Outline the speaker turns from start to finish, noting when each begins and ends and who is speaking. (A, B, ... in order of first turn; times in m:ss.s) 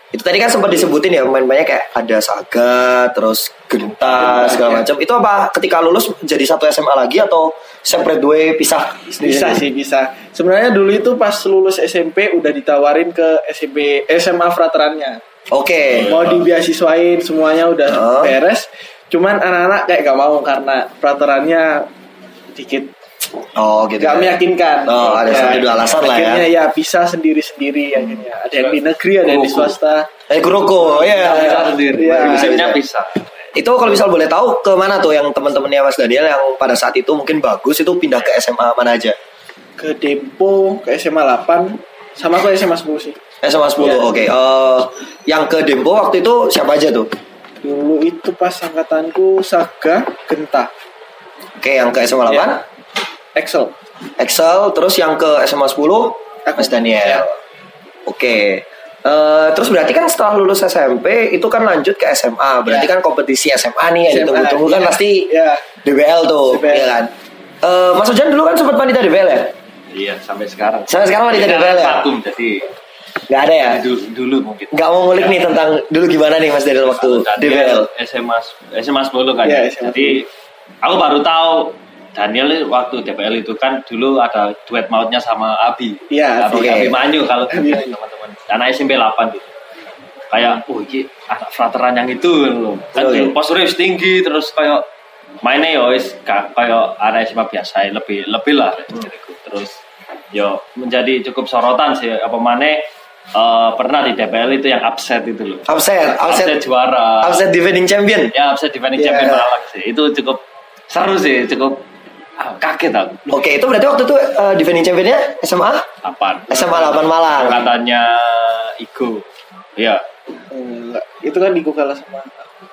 0:00.1-0:09.6 A
0:04.2-0:04.8 B
0:09.2-0:15.2 B
0:15.5-0:16.1 A
0:15.9-0:16.4 C
0:16.1-0:21.9 B
0:17.9-0:18.4 A
0:22.6-0:22.9 B
0:23.6-0:26.5 A
0:24.0-0:30.1 B
0:25.0-0:26.0 C
0:28.6-0:29.7 C
0:30.3-0:32.8 A
0:30.9-0:32.5 B
0:31.0-0:33.3 C
0:33.6-0:39.2 A
0:39.8-0:43.2 B
0:43.4-0:47.1 A
0:43.8-0:44.1 B
0:47.6-0:50.7 B
0:51.6-0:52.6 A
0:52.3-0:52.6 B
0:53.4-0:53.8 B
0:54.2-0:57.3 A
0:56.5-0:57.3 B
0:58.1-1:05.3 A
1:04.1-1:05.6 B
1:05.8-1:09.5 A
1:06.5-1:07.0 B
1:09.9-1:12.7 C
1:10.9-1:12.1 A
1:13.3-1:13.8 A
1:13.6-1:15.4 C
1:14.7-1:17.9 A
1:16.8-1:20.3 C
1:19.4-1:20.3 B
1:20.8-1:29.5 C
1:26.1-1:26.9 B
1:26.5-1:27.0 A
1:27.5-1:28.0 B
1:30.3-1:34.9 C
1:33.0-1:33.4 A
1:35.4-1:39.8 C
1:40.3-1:47.5 C
1:45.7-1:46.6 A
1:47.2-1:48.3 A
1:48.3-1:51.8 C
1:49.0-1:49.5 A
1:52.4-1:53.3 C
1:53.3-1:55.9 A
1:56.0-2:00.0 C
1:56.5-1:57.7 A
2:00.5-2:02.5 B